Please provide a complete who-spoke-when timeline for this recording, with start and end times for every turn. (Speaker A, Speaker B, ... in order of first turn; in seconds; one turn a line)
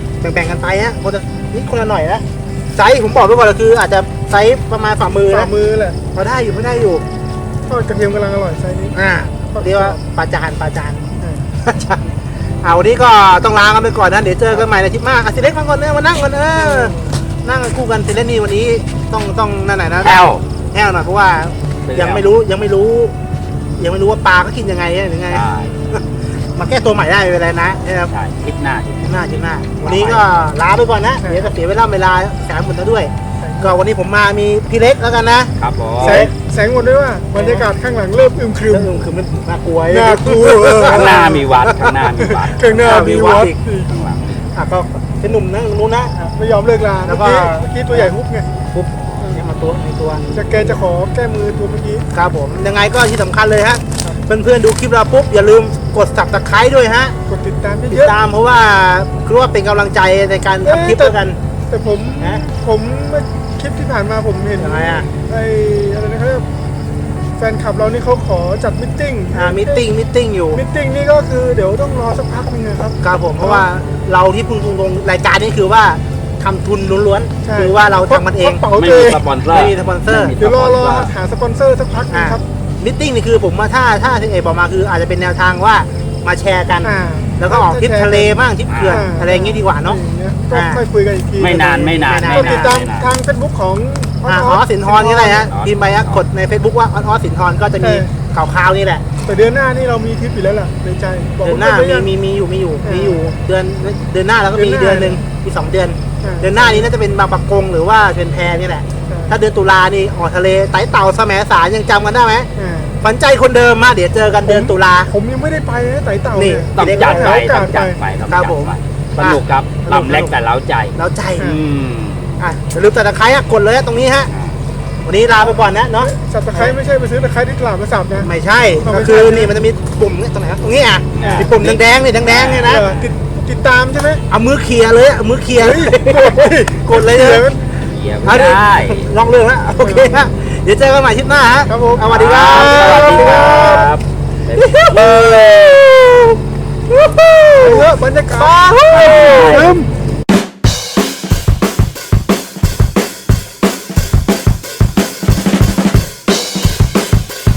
Speaker A: 0.2-5.5
Speaker B: 5.3-6.0
Speaker A: 6.1-7.0
Speaker B: 7.6-9.0
Speaker A: 8.9-12.0
Speaker B: 9.5-10.0
Speaker B: 11.2-11.5
Speaker A: 12.6-23.1
Speaker B: 16.6-17.1
Speaker C: 20.0-20.4
Speaker C: 21.9-22.3
Speaker A: 23.8-28.1
Speaker C: 25.3-25.7
Speaker C: 28.1-30.2
Speaker A: 29.0-36.3
Speaker B: 31.2-31.5
Speaker B: 33.4-33.8
Speaker C: 35.6-36.3
Speaker B: 36.0-39.0
Speaker A: 37.3-37.7
Speaker A: 38.7-42.0
Speaker B: 39.9-41.4
Speaker C: 40.8-43.1
Speaker B: 42.1-43.9
Speaker A: 42.8-43.6
Speaker C: 43.9-44.4
Speaker A: 44.5-46.3
Speaker B: 46.2-48.5
Speaker A: 47.0-48.1
Speaker A: 48.7-50.2
Speaker B: 50.3-52.0
Speaker A: 52.1-57.1
Speaker B: 57.3-58.1
Speaker A: 57.9-61.4
Speaker B: 60.6-61.2
Speaker B: 61.7-66.5
Speaker A: 62.2-62.4
Speaker A: 64.6-65.1
Speaker B: 67.4-69.8
Speaker A: 69.3-70.6
Speaker B: 70.5-73.7
Speaker A: 73.0-78.6
Speaker B: 77.4-79.2
Speaker C: 78.7-81.1
Speaker A: 79.5-80.4
Speaker B: 80.3-82.4
Speaker A: 82.1-90.0
Speaker B: 86.8-95.5
Speaker C: 88.7-89.1
Speaker A: 90.5-90.8
Speaker C: 91.4-93.1
Speaker A: 92.0-92.8
Speaker A: 94.2-99.0
Speaker C: 95.3-96.2
Speaker B: 97.8-98.1
Speaker B: 99.2-102.1
Speaker A: 101.4-112.5
Speaker B: 102.8-103.3
Speaker B: 104.5-105.2
Speaker B: 106.2-106.9
Speaker B: 109.0-109.3
Speaker B: 112.5-113.0
Speaker A: 113.0-115.1
Speaker B: 114.4-118.0
Speaker A: 116.3-117.5
Speaker C: 116.7-122.4
Speaker A: 118.3-120.3
Speaker A: 120.9-121.5
Speaker A: 122.4-124.3
Speaker C: 124.3-124.6
Speaker A: 125.0-126.8
Speaker B: 125.3-128.3
Speaker A: 128.2-132.9
Speaker B: 128.8-129.5
Speaker C: 131.1-133.0
Speaker B: 131.2-131.5
Speaker B: 132.6-134.2
Speaker A: 134.3-137.5
Speaker B: 135.6-137.6
Speaker C: 137.8-139.1
Speaker A: 138.2-143.8
Speaker B: 139.8-140.2
Speaker B: 141.7-142.1
Speaker C: 142.1-146.2
Speaker B: 143.2-143.9
Speaker A: 144.5-146.3
Speaker A: 146.9-149.7
Speaker B: 147.6-149.9
Speaker C: 148.7-149.7